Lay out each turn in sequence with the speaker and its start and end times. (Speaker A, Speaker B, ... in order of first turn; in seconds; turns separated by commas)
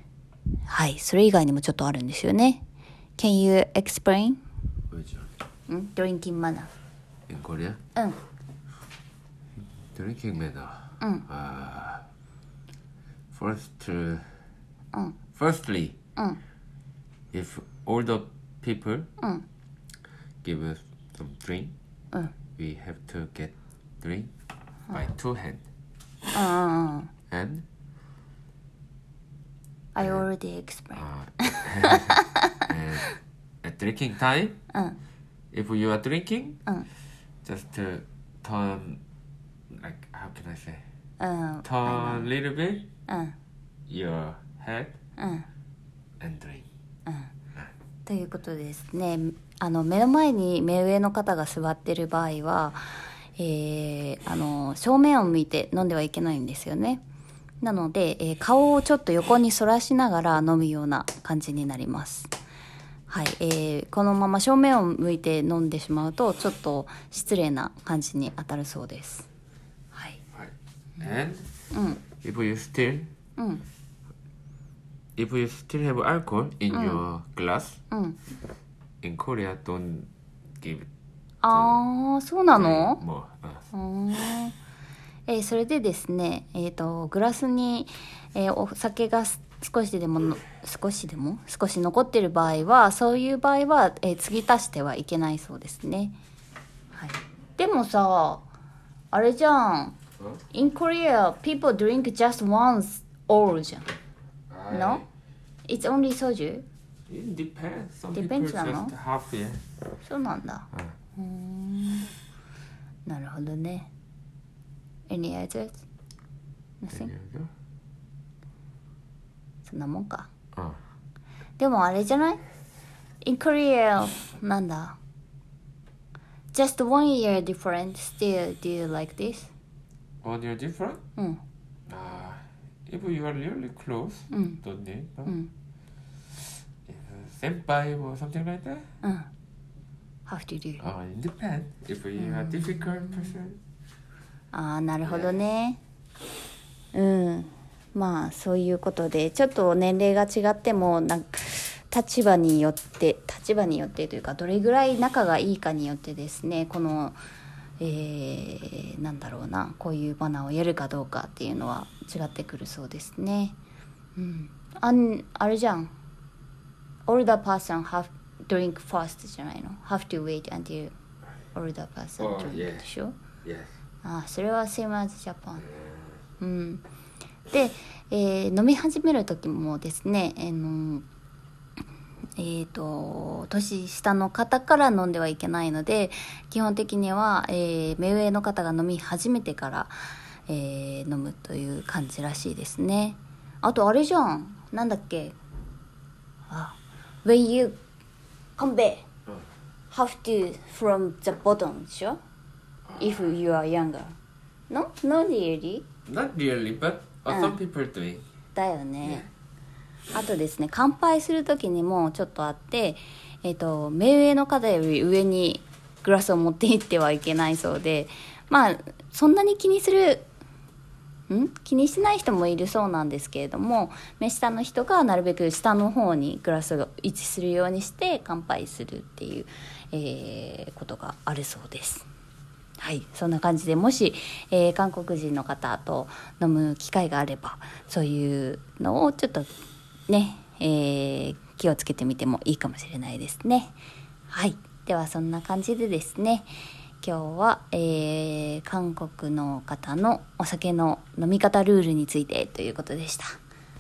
Speaker A: 0.7-2.6, Speaker A: 3.2-4.4, Speaker B: 4.9-5.3, Speaker A: 5.7-6.7, Speaker B: 7.3-7.8, Speaker B: 9.9-12.1, Speaker A: 11.0-11.3, Speaker B: 13.3-14.3, Speaker B: 15.3-16.0, Speaker B: 17.3-19.1, Speaker A: 19.2-19.4, Speaker B: 20.4-21.8, Speaker B: 22.6-24.3, Speaker B: 24.9-25.6, Speaker A: 26.3-27.1, Speaker B: 27.3-27.6, Speaker A: 29.9-33.0, Speaker B: 30.9-33.1, Speaker B: 33.6-34.6, Speaker A: 34.7-35.0, Speaker B: 35.5-36.6, Speaker B: 37.4-39.0, Speaker B: 39.7-40.8, Speaker A: 41.2-42.3, Speaker B: 41.6-42.9, Speaker A: 43.1-43.4, Speaker B: 43.9-45.0, Speaker A: 45.2-45.5, Speaker B: 46.2-46.7, Speaker A: 47.1-47.3, Speaker A: 48.1-52.8, Speaker A: 53.4-57.0, Speaker A: 57.6-62.3, Speaker A: 63.1-69.3, Speaker A: 69.9-70.2, Speaker B: 70.3-71.5, Speaker A: 71.7-72.0, Speaker B: 72.2-73.1, Speaker A: 73.4-73.6, Speaker B: 75.2-77.8, Speaker A: 76.7-77.0, Speaker A: 77.9-78.2, Speaker B: 79.0-80.9, Speaker A: 81.4-83.0, Speaker B: 81.5-81.8, Speaker B: 82.5-83.7, Speaker A: 83.7-84.5, Speaker A: 85.3-96.2, Speaker A: 96.9-98.5, Speaker A: 99.1-100.0, Speaker A: 100.5-103.9, Speaker B: 104.5-105.1, Speaker A: 104.7-105.0, Speaker A: 105.7-106.7, Speaker B: 107.1-109.7, Speaker A: 108.1-108.9, Speaker A: 110.0-112.1, Speaker A: 113.1-113.9, Speaker A: 115.1-115.8, Speaker A: 116.8-117.1, Speaker B: 116.9-117.5, Speaker A: 119.6-120.3, Speaker A: 121.6-122.4, Speaker A: 123.2-125.0, Speaker A: 126.5-129.5, Speaker B: 130.2-131.0, Speaker A: 131.2-131.4, Speaker B: 131.9-135.3, Speaker A: 134.3-134.6, Speaker B: 136.9-138.9, Speaker A: 139.0-139.3, Speaker A: 140.3-140.8, Speaker B: 140.8-143.6, Speaker A: 142.2-143.3, Speaker A: 144.5-145.8, Speaker B: 145.1-145.3, Speaker A: 146.9-157.2, Speaker A: 157.8-163.6, Speaker A: 164.2-165.9, Speaker A: 167.1-170.9, Speaker A: 171.5-173.2, Speaker B: 172.2-172.9, Speaker B: 173.4-173.7, Speaker A: 174.0-175.7, Speaker B: 175.7-176.0, Speaker A: 176.4-176.8, Speaker A: 177.5-181.1, Speaker A: 182.4-189.9, Speaker A: 190.5-195.4, Speaker A: 196.5-197.8, Speaker A: 198.6-199.1, Speaker A: 199.9-202.2, Speaker A: 203.0-204.1, Speaker A: 204.7-205.9, Speaker B: 206.1-208.2, Speaker A: 207.3-207.6, Speaker A: 208.6-209.3, Speaker A: 210.1-220.3, Speaker A: 221.3-232.1, Speaker A: 232.8-239.5, Speaker A: 240.1-243.8, Speaker A: 244.3-246.5, Speaker A: 247.0-253.3